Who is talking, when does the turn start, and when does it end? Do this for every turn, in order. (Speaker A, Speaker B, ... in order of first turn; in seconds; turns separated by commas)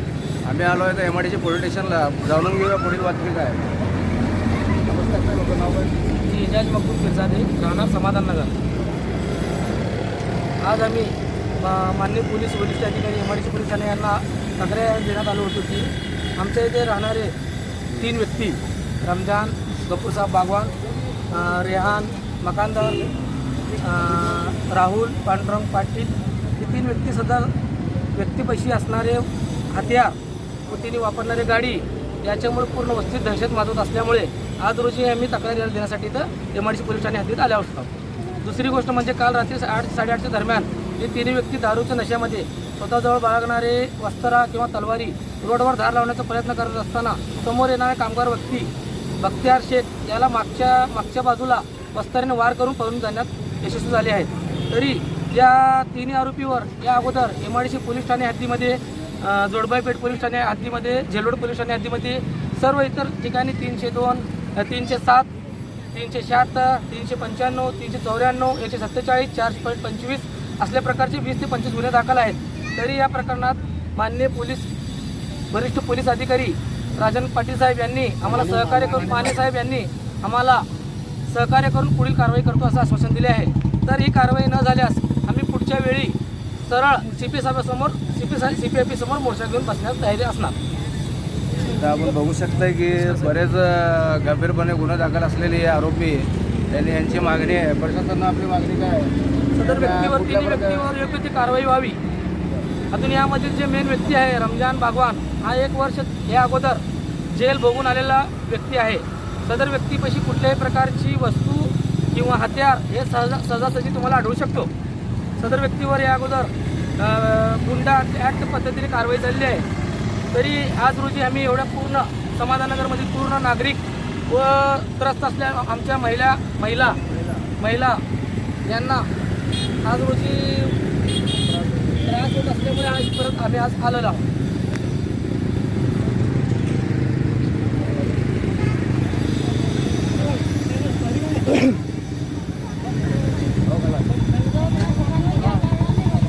Speaker A: 0.4-3.7, Speaker A: 4.9-5.9, Speaker B: 6.2-8.6, Speaker B: 10.6-17.4, Speaker B: 17.9-20.7, Speaker B: 21.3-23.1, Speaker B: 23.8-27.6, Speaker B: 28.1-65.3, Speaker B: 65.9-74.7, Speaker B: 75.5-80.7, Speaker B: 81.3-90.6, Speaker A: 91.7-99.2, Speaker B: 93.0-93.3, Speaker B: 99.5-102.0, Speaker A: 99.7-100.9, Speaker B: 102.9-114.7, Speaker B: 115.4-119.7, Speaker B: 120.3-127.0, Speaker B: 127.6-128.0, Speaker B: 128.7-129.1, Speaker B: 129.8-130.8, Speaker B: 131.9-134.3